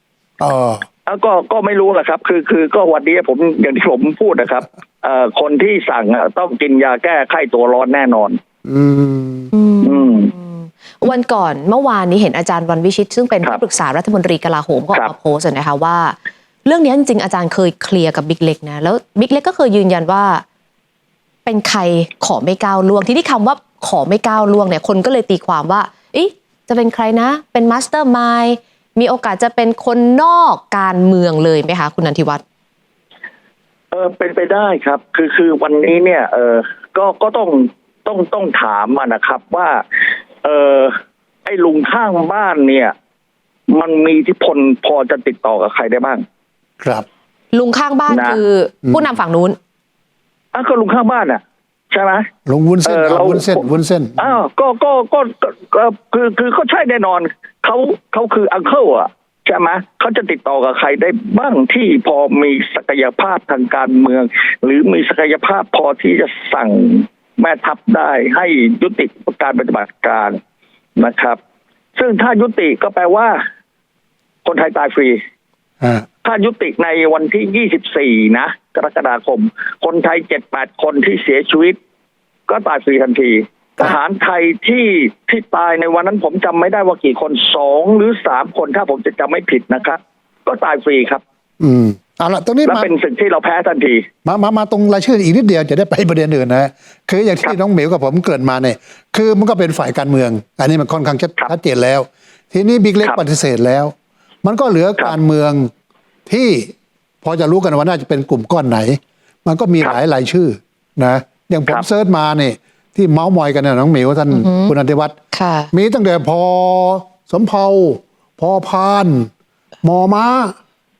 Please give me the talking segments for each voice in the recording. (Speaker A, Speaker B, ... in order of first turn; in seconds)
Speaker A: 0.4-0.8, 8.6-9.5, 52.5-54.4, 75.8-76.0, 91.6-92.9, 94.2-105.7, 106.3-115.2, 115.7-119.3, 119.8-120.5
Speaker B: 1.1-8.4, 9.8-10.3, 33.9-39.8, 40.4-40.9, 41.5-42.9, 43.7-46.2, 48.1-48.4, 50.5-52.3, 52.8-53.6, 54.2-70.4, 71.0-71.4, 72.0-73.4, 74.4-75.2, 76.2-81.8, 82.5-91.2, 92.6-94.0
Speaker C: 9.5-20.4, 21.4-32.4, 47.5-49.6, 114.3-114.7, 115.3-115.7